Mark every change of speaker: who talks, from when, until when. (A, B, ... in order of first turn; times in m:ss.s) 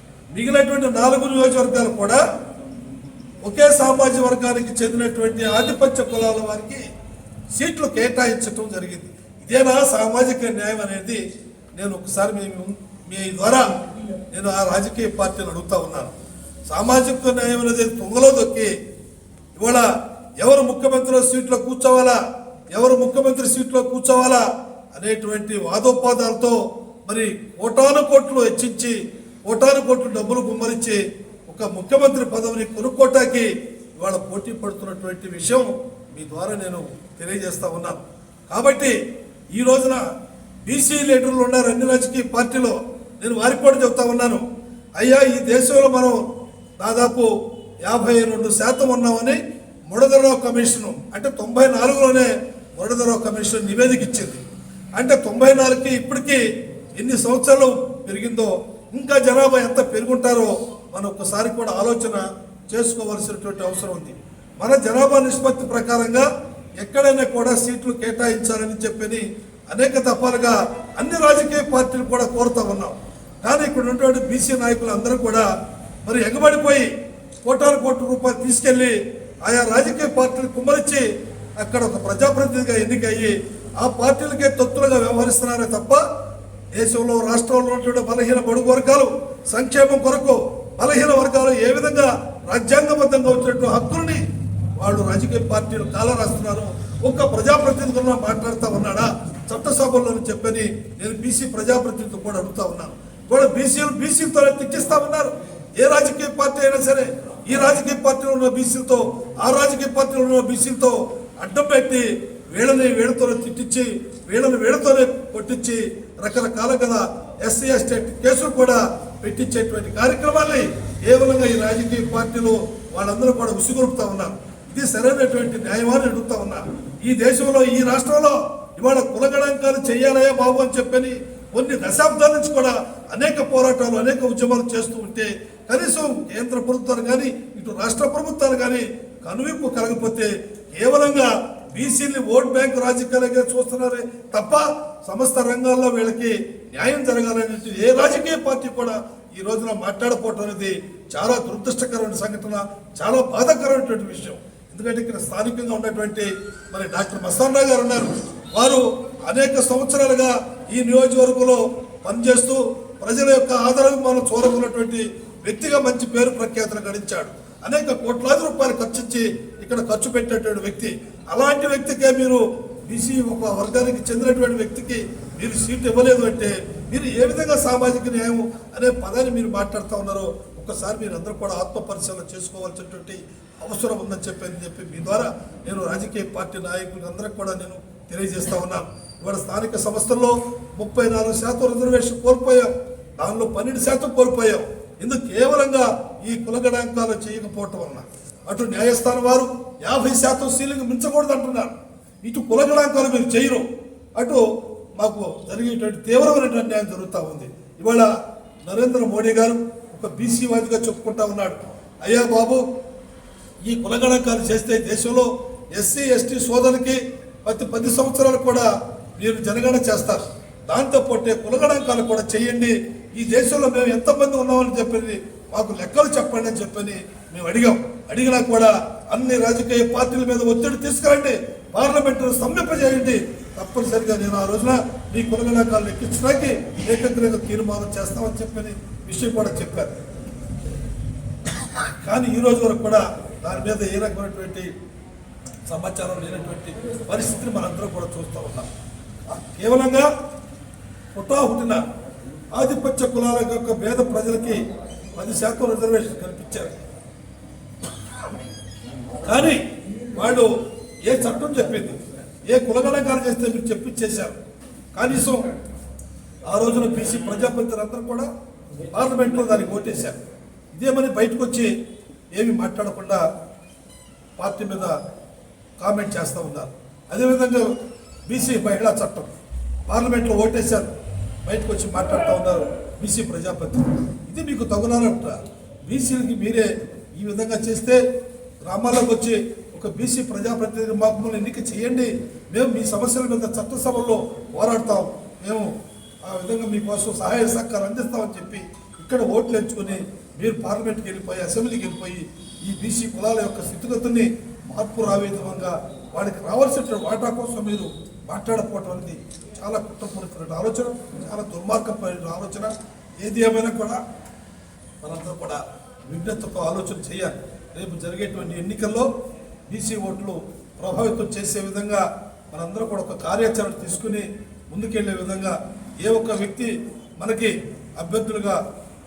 0:00.3-0:02.2 A
0:03.4-0:06.8 A
0:07.5-0:11.2 A
0:11.7-0:13.6 A
0:14.3-0:16.1 A
0:16.7-0:18.7 A
0:19.6-0:19.8 A
0:20.4-0:22.2 A
0:22.7-0:24.4 A
0:24.9-0:33.5 A
0:34.0-0:38.9 A
0:39.5-0:40.0 A
0:40.6-0:44.4 A
0:45.0-0:46.2 A
0:46.8-0:47.3 A
0:47.8-0:49.4 A
0:49.9-0:54.4 A
0:55.0-0:56.4 A
0:57.0-1:06.2 A
1:06.8-1:15.4 A
1:16.0-1:16.9 A
1:17.4-1:21.0 A
1:21.6-1:26.0 A
1:26.7-1:34.2 A
1:34.8-3:23.6 A
3:24.2-3:24.4 A
3:25.0-3:28.1 A
3:28.6-3:32.6 A
3:33.6-4:00.0 A
4:01.8-4:04.7 A
4:05.6-4:08.7 A
4:09.3-4:10.1 A
4:11.1-4:11.8 A
4:12.5-4:14.6 A
4:15.2-4:16.7 A
4:19.2-4:20.5 A
4:21.0-4:24.4 A
4:24.9-4:25.5 A
4:26.4-4:28.3 A
4:28.9-4:30.2 A
4:30.7-4:31.7 A
4:32.3-4:33.2 A
4:34.4-4:34.9 A
4:35.8-4:37.6 A
4:38.3-4:39.3 A
4:39.9-4:40.9 A
4:41.4-4:48.0 A
4:48.6-4:55.7 A
4:56.2-5:14.0 A
5:15.0-5:19.1 A
5:19.7-5:28.6 A